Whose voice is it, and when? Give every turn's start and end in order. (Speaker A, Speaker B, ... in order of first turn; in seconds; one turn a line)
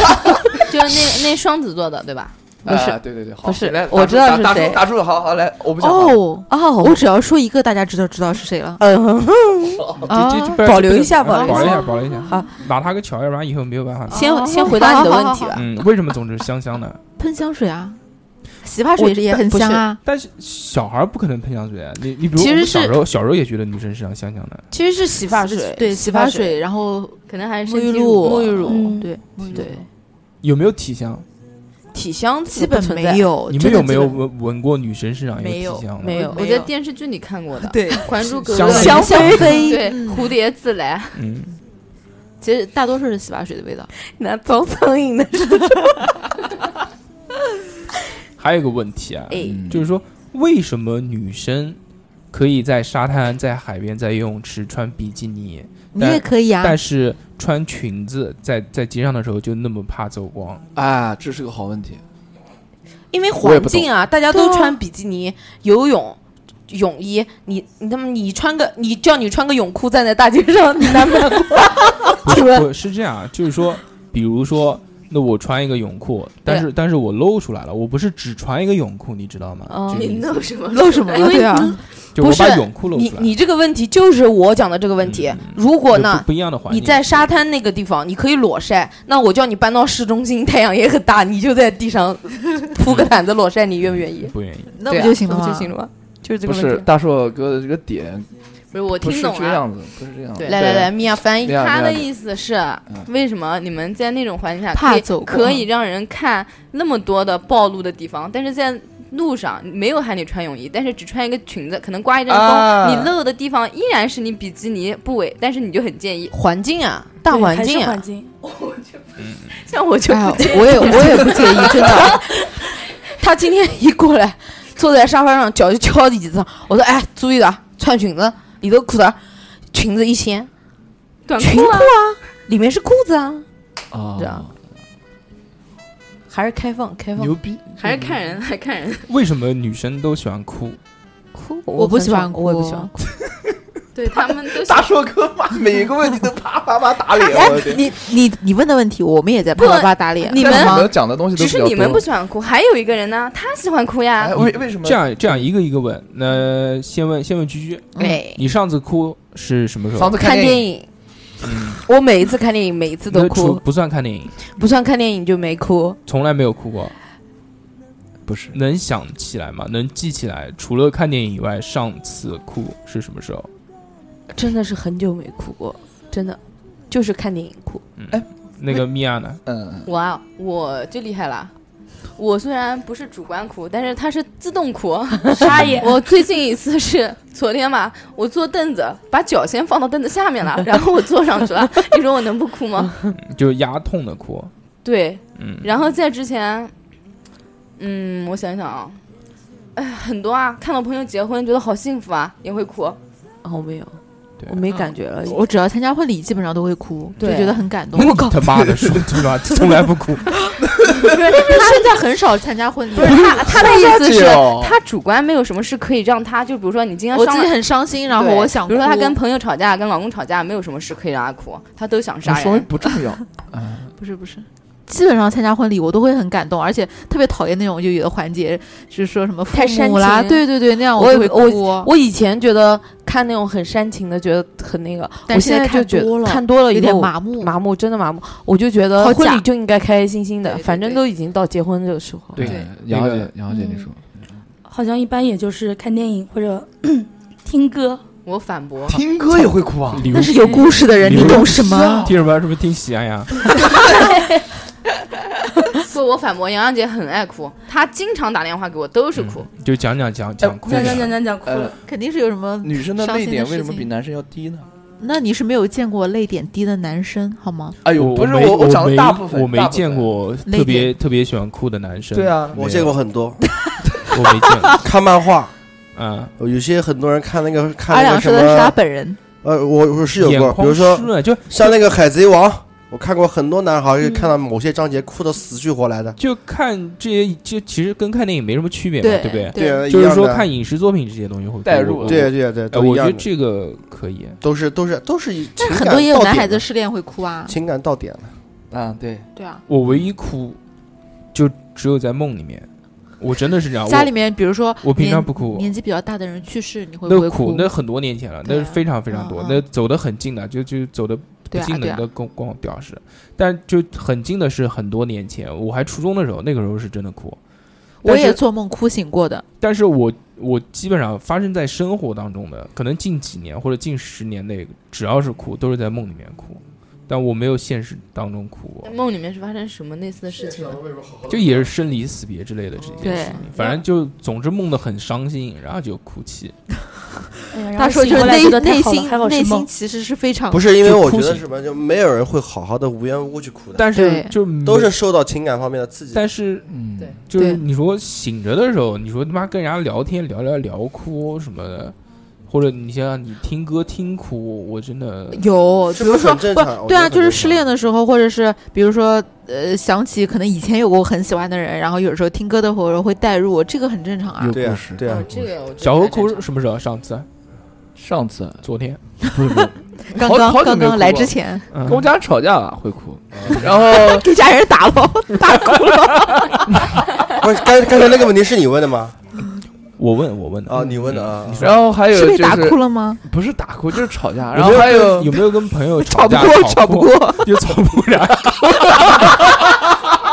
Speaker A: 0.6-2.4
Speaker B: 2.6-4.8
Speaker C: 2.6-6.3
Speaker D: 5.8-8.8
Speaker B: 6.5-7.0
Speaker B: 8.8-9.9
Speaker E: 10.1-14.3
Speaker D: 10.1-10.6
Speaker B: 10.6-12.5
Speaker D: 11.2-11.9
Speaker D: 14.1-15.6
Speaker B: 14.1-15.7
Speaker E: 15.5-17.0
Speaker D: 17.2-18.0
Speaker D: 18.6-20.0
Speaker B: 19.0-19.8
Speaker E: 20.0-24.6
Speaker B: 22.4-23.0
Speaker B: 24.7-26.6
Speaker D: 25.4-29.9
Speaker A: 27.3-28.7
Speaker B: 28.2-29.9
Speaker F: 28.7-29.1
Speaker E: 30.4-31.2
Speaker B: 31.9-34.0
Speaker D: 32.5-34.2
Speaker E: 33.5-36.3
Speaker D: 35.4-36.7
Speaker B: 36.0-36.5
Speaker A: 36.1-41.2
Speaker D: 37.6-40.3
Speaker E: 38.5-39.6
Speaker B: 38.7-39.8
Speaker E: 41.1-41.6
Speaker D: 42.4-43.9
Speaker B: 44.1-46.1
Speaker E: 48.4-51.8
Speaker C: 49.4-49.8
Speaker E: 52.3-60.6
Speaker D: 55.9-56.8
Speaker C: 60.8-62.0
Speaker B: 63.1-72.7
Speaker C: 63.4-63.9
Speaker D: 64.3-64.8
Speaker E: 72.2-80.3
Speaker B: 79.7-80.3
Speaker A: 79.9-81.7
Speaker D: 80.7-81.8
Speaker B: 81.2-94.3
Speaker E: 82.2-83.3
Speaker E: 85.0-87.3
Speaker E: 94.3-94.8
Speaker D: 94.8-95.7
Speaker A: 94.9-95.9
Speaker B: 96.2-96.9
Speaker C: 96.4-98.3
Speaker A: 98.7-99.6
Speaker C: 99.0-102.1
Speaker A: 100.4-100.6
Speaker B: 100.5-101.7
Speaker A: 101.5-116.3
Speaker D: 104.7-105.6
Speaker C: 112.3-113.1
Speaker B: 116.3-118.0
Speaker F: 117.3-118.3
Speaker A: 118.5-118.8
Speaker E: 119.2-119.5
Speaker A: 119.5-122.2
Speaker D: 120.1-122.2
Speaker B: 120.4-122.3
Speaker B: 123.2-129.2
Speaker B: 129.7-130.5
Speaker A: 131.3-131.9
Speaker B: 131.4-133.5
Speaker C: 133.9-134.5
Speaker B: 134.2-134.4
Speaker B: 136.3-137.4
Speaker C: 137.2-138.1
Speaker A: 137.8-139.1
Speaker E: 139.1-140.8
Speaker B: 141.3-142.9
Speaker D: 141.8-142.9
Speaker A: 143.9-144.9
Speaker C: 144.5-147.9
Speaker D: 147.3-150.9
Speaker A: 149.6-154.4
Speaker C: 150.4-152.1
Speaker C: 154.2-155.5
Speaker E: 154.5-160.2
Speaker D: 158.0-158.4
Speaker C: 159.9-160.7
Speaker B: 160.2-160.9
Speaker E: 161.4-161.8
Speaker B: 161.8-163.6
Speaker E: 163.1-164.5
Speaker B: 164.5-166.0
Speaker E: 166.1-166.9
Speaker C: 168.3-168.6
Speaker E: 168.5-173.5
Speaker B: 174.3-177.8
Speaker E: 178.0-179.4
Speaker C: 178.1-178.9
Speaker C: 179.4-179.9
Speaker A: 179.9-181.5
Speaker A: 182.2-193.0
Speaker E: 185.4-185.9
Speaker F: 185.4-185.9
Speaker E: 193.2-194.5
Speaker A: 194.8-196.7
Speaker E: 195.4-195.7
Speaker A: 197.8-199.0
Speaker A: 199.8-203.0
Speaker B: 203.4-205.4
Speaker D: 204.7-208.6
Speaker A: 207.2-207.7
Speaker E: 207.9-210.4
Speaker C: 208.6-209.2
Speaker C: 210.7-211.4
Speaker D: 211.3-213.4
Speaker A: 213.0-217.5
Speaker C: 213.0-214.8
Speaker D: 217.1-219.2
Speaker A: 218.1-222.7
Speaker C: 222.2-223.9
Speaker D: 224.0-231.9
Speaker B: 229.5-242.5
Speaker D: 235.3-237.6
Speaker D: 239.0-239.4
Speaker D: 240.4-241.0
Speaker E: 242.4-243.3
Speaker C: 242.4-244.2
Speaker F: 244.7-248.0
Speaker A: 248.2-249.0
Speaker C: 248.9-250.2
Speaker E: 249.9-253.8
Speaker D: 250.1-252.1
Speaker C: 251.2-252.2
Speaker A: 253.8-254.3
Speaker A: 255.7-259.5
Speaker E: 259.2-261.1
Speaker C: 260.4-261.8
Speaker F: 260.7-261.7
Speaker D: 261.8-263.9
Speaker C: 262.6-264.7
Speaker D: 265.0-267.8
Speaker C: 267.8-270.2
Speaker E: 267.9-272.9
Speaker D: 270.4-270.9
Speaker C: 272.1-272.6
Speaker G: 272.6-273.4
Speaker E: 274.1-274.9
Speaker G: 274.7-275.5
Speaker E: 276.0-276.3
Speaker G: 276.4-278.8
Speaker D: 277.9-279.2
Speaker G: 279.4-286.2
Speaker E: 280.2-281.8
Speaker F: 284.0-284.3
Speaker E: 286.2-294.4
Speaker D: 289.0-289.8
Speaker G: 289.6-290.5
Speaker C: 291.6-292.4
Speaker G: 292.1-293.3
Speaker G: 294.4-296.6
Speaker D: 295.6-297.6
Speaker G: 297.5-298.3
Speaker C: 298.7-299.3
Speaker D: 299.4-299.6
Speaker E: 299.7-300.6
Speaker E: 301.3-302.7
Speaker E: 303.2-304.1
Speaker D: 303.9-307.7
Speaker E: 304.8-305.7
Speaker E: 307.1-317.4
Speaker D: 308.4-309.6
Speaker D: 311.5-312.0
Speaker E: 318.0-318.4
Speaker D: 318.0-319.4
Speaker E: 319.6-328.9
Speaker A: 328.9-330.8
Speaker G: 330.3-331.7
Speaker E: 331.3-336.6
Speaker D: 333.0-333.4
Speaker F: 337.5-339.7
Speaker D: 337.8-340.7
Speaker G: 340.5-343.9
Speaker E: 340.8-341.4
Speaker E: 343.8-344.9
Speaker D: 343.9-344.3
Speaker G: 344.6-346.3
Speaker E: 346.1-346.7
Speaker C: 346.7-347.2
Speaker E: 347.3-351.9
Speaker D: 347.4-347.6
Speaker E: 352.5-355.5
Speaker D: 355.3-364.6
Speaker G: 355.9-357.7
Speaker C: 364.4-365.5
Speaker G: 364.5-365.4
Speaker A: 365.1-366.4
Speaker E: 365.8-367.3
Speaker C: 368.0-368.7
Speaker E: 368.6-369.0
Speaker D: 369.3-371.6
Speaker C: 369.4-374.3
Speaker E: 371.7-372.1
Speaker G: 373.3-373.7
Speaker D: 374.0-376.6
Speaker G: 377.4-379.2
Speaker E: 380.0-381.8
Speaker G: 380.7-381.7
Speaker C: 381.6-385.4
Speaker D: 382.1-383.2
Speaker E: 384.5-389.5
Speaker D: 386.0-387.5